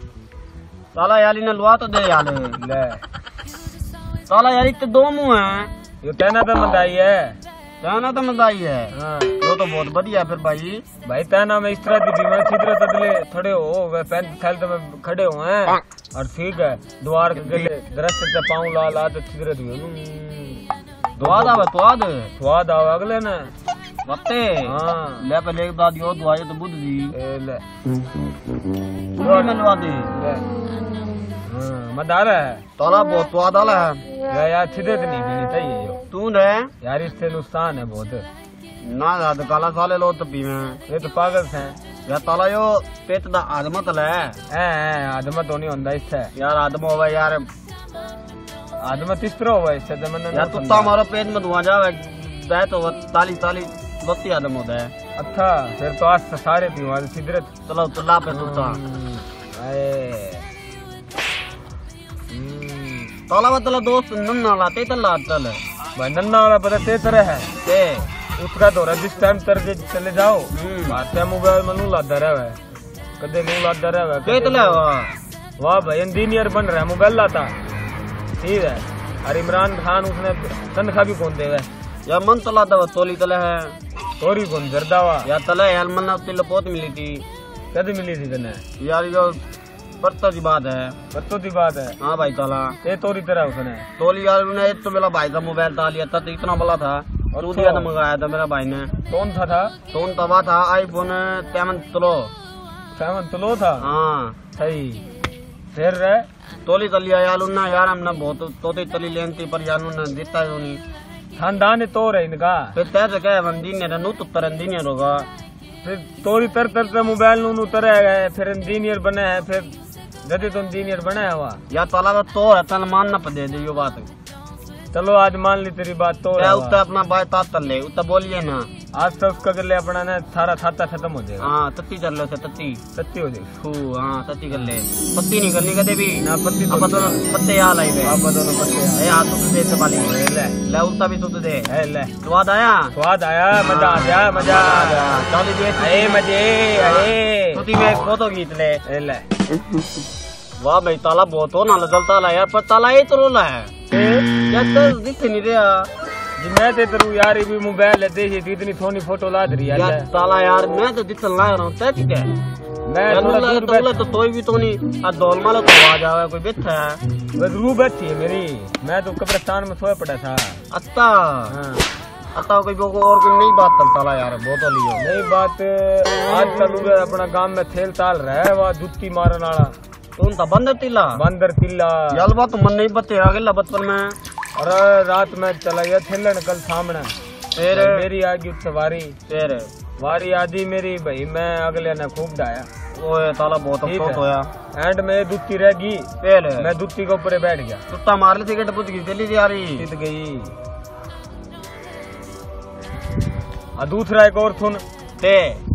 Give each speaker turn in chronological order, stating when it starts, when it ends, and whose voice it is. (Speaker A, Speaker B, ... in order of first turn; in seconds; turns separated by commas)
Speaker A: 0.9-2.6, Speaker B: 2.6-3.0, Speaker A: 4.3-5.7, Speaker B: 6.0-7.4, Speaker A: 7.8-10.8, Speaker B: 8.9-9.4, Speaker B: 11.0-20.6, Speaker A: 17.4-17.7, Speaker B: 21.1-21.7, Speaker A: 21.2-22.3, Speaker B: 22.4-23.5, Speaker A: 24.1-27.1, Speaker B: 24.6-25.2, Speaker B: 27.1-27.6, Speaker A: 29.1-30.1, Speaker B: 29.2-29.5, Speaker B: 30.1-30.5, Speaker B: 31.5-32.6, Speaker A: 32.8-34.0, Speaker B: 34.3-36.0, Speaker A: 36.1-36.7, Speaker B: 36.8-38.3, Speaker A: 38.8-40.8, Speaker B: 40.9-41.8, Speaker A: 42.1-44.4, Speaker B: 44.5-46.3, Speaker A: 46.4-47.5, Speaker B: 48.8-51.0, Speaker A: 50.3-54.9, Speaker B: 55.2-57.5, Speaker A: 57.7-58.8, Speaker B: 58.3-60.5, Speaker B: 62.3-63.1, Speaker A: 63.3-65.6, Speaker B: 66.0-67.5, Speaker A: 67.6-68.1, Speaker B: 68.4-72.6, Speaker A: 70.5-71.0, Speaker B: 73.2-74.8, Speaker A: 74.2-75.2, Speaker B: 75.6-77.5, Speaker B: 78.4-81.7, Speaker A: 82.1-83.8, Speaker B: 84.2-85.3, Speaker A: 85.2-87.2, Speaker B: 87.7-88.6, Speaker A: 88.8-89.4, Speaker A: 90.0-91.0, Speaker B: 91.1-92.0, Speaker A: 92.0-92.8, Speaker B: 92.8-93.9, Speaker A: 94.0-98.9, Speaker B: 97.3-97.9, Speaker B: 99.1-99.7, Speaker A: 99.9-102.3, Speaker B: 103.0-103.9, Speaker A: 103.8-104.4, Speaker B: 104.5-105.0, Speaker B: 105.7-106.3, Speaker A: 106.7-110.8, Speaker B: 111.4-112.7, Speaker A: 112.7-115.3, Speaker B: 115.8-119.7, Speaker B: 120.2-121.6, Speaker A: 121.7-124.1, Speaker B: 124.9-126.8, Speaker A: 126.4-128.7, Speaker B: 128.9-131.5, Speaker A: 131.4-132.8, Speaker B: 132.9-133.5, Speaker A: 133.6-138.2, Speaker B: 136.2-137.3, Speaker B: 138.0-139.1, Speaker A: 138.9-142.9, Speaker B: 140.1-140.6, Speaker B: 141.7-142.1, Speaker B: 142.9-145.2, Speaker A: 143.6-146.2, Speaker B: 145.8-147.7, Speaker A: 146.8-148.8, Speaker B: 148.8-149.2, Speaker A: 150.6-153.8, Speaker B: 153.9-154.3, Speaker A: 154.4-155.9, Speaker B: 156.4-160.1, Speaker A: 159.7-162.3, Speaker B: 162.9-163.9, Speaker A: 163.1-167.0, Speaker B: 167.3-170.6, Speaker A: 170.7-171.6, Speaker B: 171.5-171.8, Speaker A: 172.3-175.1, Speaker B: 175.0-179.8, Speaker A: 180.2-181.2, Speaker B: 181.2-182.2, Speaker A: 182.1-184.2, Speaker B: 184.6-187.2, Speaker A: 187.6-188.1, Speaker B: 187.7-189.2, Speaker A: 189.3-189.7, Speaker B: 190.0-192.7, Speaker A: 193.0-194.5, Speaker B: 193.8-197.8, Speaker A: 196.2-196.7, Speaker A: 197.9-199.9, Speaker B: 199.8-200.6, Speaker B: 203.8-204.8, Speaker A: 205.2-205.6